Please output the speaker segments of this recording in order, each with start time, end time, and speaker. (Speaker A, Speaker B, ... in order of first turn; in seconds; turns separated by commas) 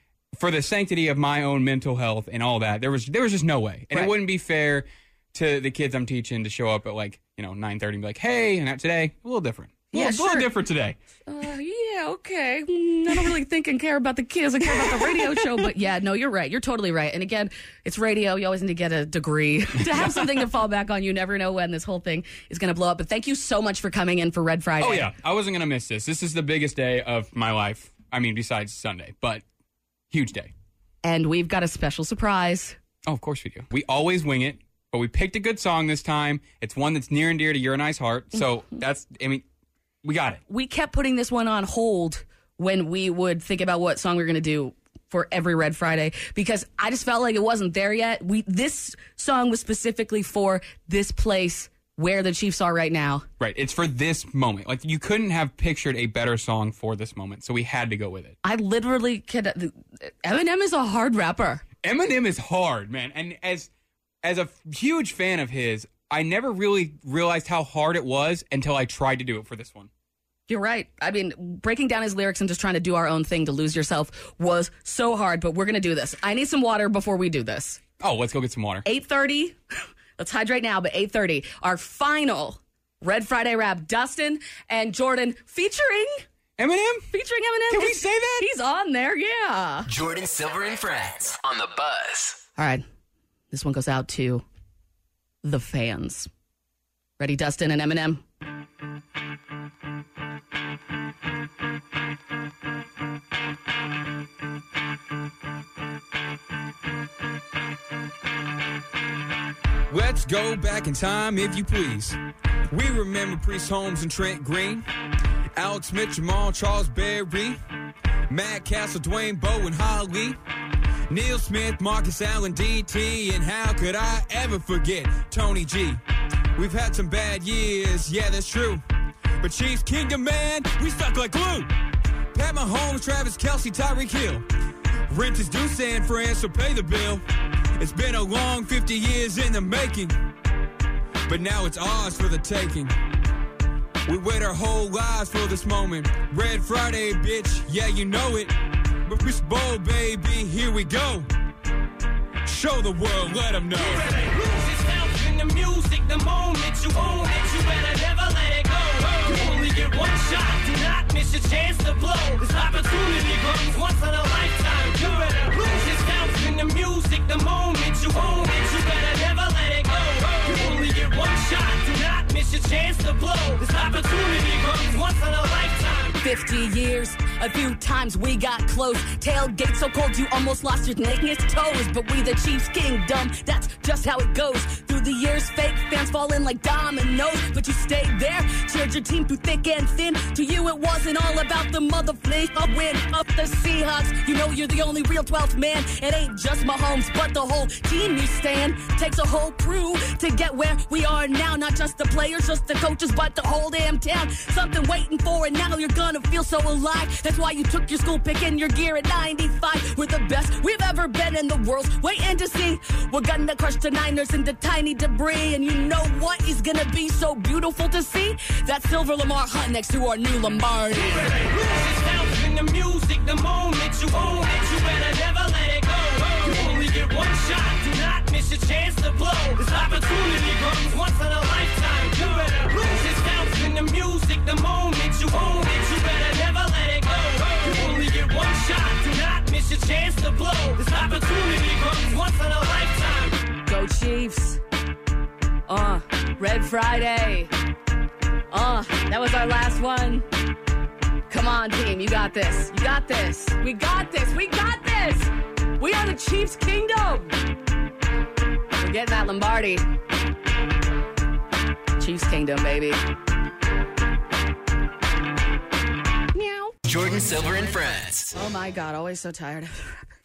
Speaker A: 0.3-11.0, Speaker B: 9.9-10.5, Speaker B: 11.3-25.1, Speaker A: 24.8-29.4, Speaker A: 30.1-30.5, Speaker B: 31.0-32.8, Speaker A: 33.1-39.4, Speaker A: 40.0-40.4, Speaker B: 40.5-53.3, Speaker A: 53.4-58.4, Speaker B: 58.4-61.6, Speaker A: 61.8-63.7, Speaker A: 64.2-69.9, Speaker B: 70.5-77.8, Speaker A: 78.0-78.8, Speaker B: 78.8-79.6, Speaker B: 80.2-86.2, Speaker A: 86.6-87.1, Speaker B: 87.1-89.9, Speaker A: 87.7-88.5, Speaker C: 89.9-92.4, Speaker B: 92.6-92.8, Speaker B: 93.5-94.4, Speaker B: 95.4-96.3, Speaker B: 97.2-98.2, Speaker A: 109.9-112.2, Speaker A: 112.7-114.8, Speaker A: 115.6-117.6, Speaker A: 118.3-120.4, Speaker A: 121.1-126.0, Speaker A: 126.6-128.8, Speaker A: 129.4-131.7, Speaker A: 132.3-134.4, Speaker A: 135.1-137.2, Speaker A: 137.8-140.2, Speaker A: 141.3-142.9, Speaker A: 144.1-151.3, Speaker A: 152.4-154.1, Speaker D: 153.8-176.2, Speaker B: 176.2-221.3, Speaker D: 221.2-243.4, Speaker B: 243.7-244.6, Speaker B: 245.7-247.5, Speaker B: 248.5-250.3, Speaker B: 251.3-257.4, Speaker B: 258.8-259.9, Speaker B: 262.0-263.0, Speaker B: 266.3-266.7, Speaker C: 266.9-268.3, Speaker B: 268.4-270.1